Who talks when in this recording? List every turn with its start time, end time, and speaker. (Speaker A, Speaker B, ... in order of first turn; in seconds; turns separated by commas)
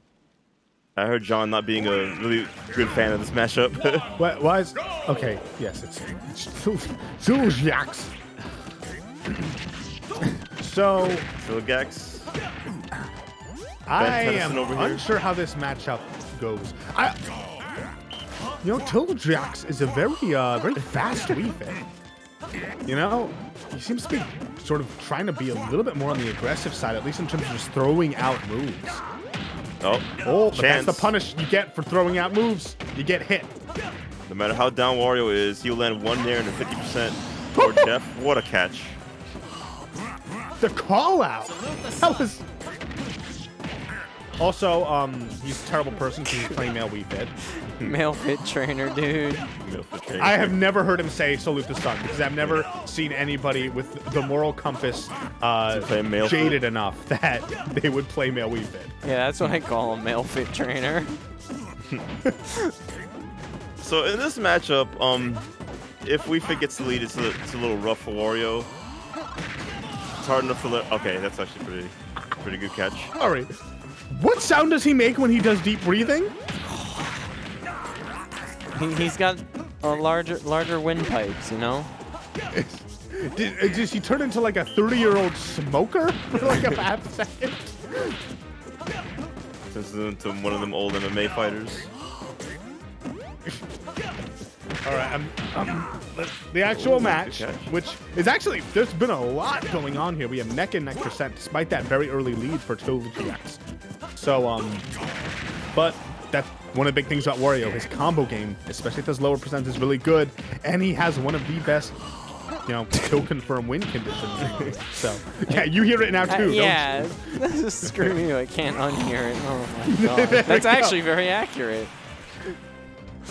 Speaker A: 1.0-4.1, Speaker B: 4.2-8.2, Speaker B: 10.6-11.3, Speaker A: 11.4-12.3, Speaker B: 13.9-17.2, Speaker A: 14.0-15.1, Speaker B: 18.6-21.8, Speaker B: 22.9-29.0, Speaker A: 29.8-31.1, Speaker B: 30.2-33.5, Speaker A: 34.3-39.0, Speaker B: 37.5-37.9, Speaker B: 40.6-42.4, Speaker B: 44.4-47.4, Speaker C: 46.3-46.6, Speaker C: 47.7-49.5, Speaker A: 49.6-50.6, Speaker B: 50.2-58.9, Speaker A: 55.7-56.6, Speaker C: 59.0-61.2, Speaker A: 63.8-65.5, Speaker A: 66.0-68.7, Speaker A: 70.2-73.1, Speaker B: 73.2-73.5, Speaker B: 74.1-76.3, Speaker C: 76.7-77.2, Speaker C: 78.7-81.9, Speaker B: 82.5-88.2, Speaker A: 89.7-91.9, Speaker B: 94.8-103.6, Speaker A: 96.7-97.7, Speaker B: 104.2-104.9, Speaker B: 105.7-112.0, Speaker B: 112.7-117.2, Speaker C: 116.3-121.9, Speaker B: 119.9-121.0